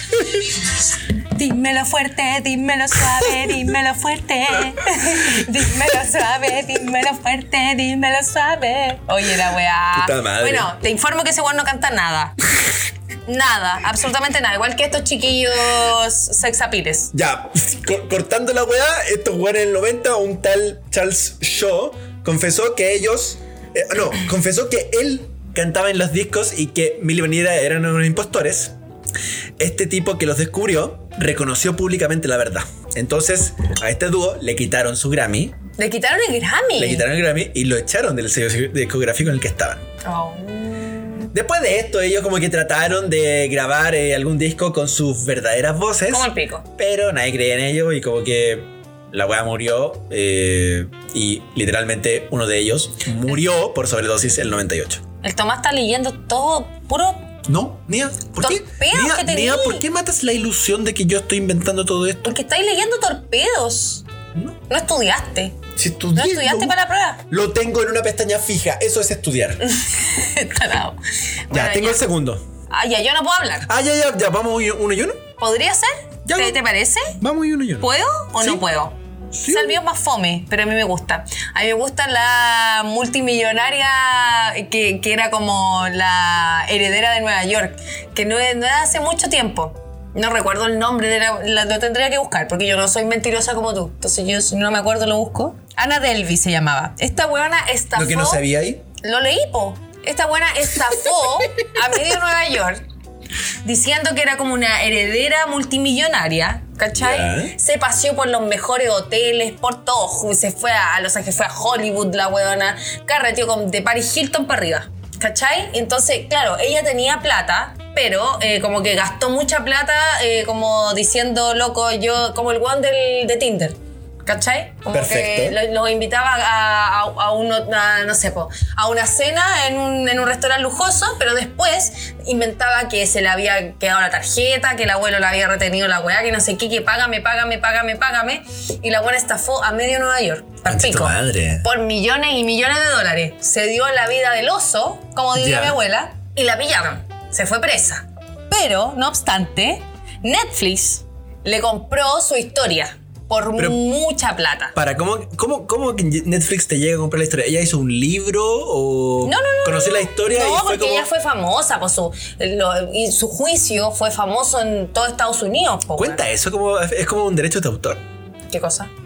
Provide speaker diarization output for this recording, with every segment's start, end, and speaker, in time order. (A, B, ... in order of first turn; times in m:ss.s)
0:01.4-0:12.4 A
0:09.9-0:10.7 B
0:13.3-0:17.1 A
0:17.1-0:28.8 B
0:29.6-0:35.6 B
0:35.8-0:37.1 A
0:36.8-0:39.8 B
0:40.0-0:41.3 A
0:41.3-0:55.0 B
0:46.1-0:46.7 A
0:55.2-0:57.3 A
0:57.5-1:02.4 B
0:58.4-0:59.8 A
1:02.2-1:04.0 A
1:04.7-1:05.6 A
1:05.8-1:06.8 B
1:06.1-1:07.2 A
1:07.3-1:09.7 B
1:09.6-1:12.0 A
1:11.5-1:12.4 B
1:12.7-1:13.7 A
1:13.6-1:15.3 B
1:15.4-1:17.2 A
1:16.2-1:16.6 B
1:17.2-1:18.6 B
1:17.8-1:38.4 A
1:19.3-1:19.8 B
1:37.9-1:38.8 B
1:39.0-1:42.8 A
1:43.6-2:34.8 A
1:47.0-1:47.5 B
2:04.9-2:05.6 B
2:20.6-2:21.7 B
2:25.4-2:25.8 B
2:34.8-2:41.1 B
2:39.2-2:46.2 A
2:46.0-2:48.0 B
2:48.5-2:48.9 A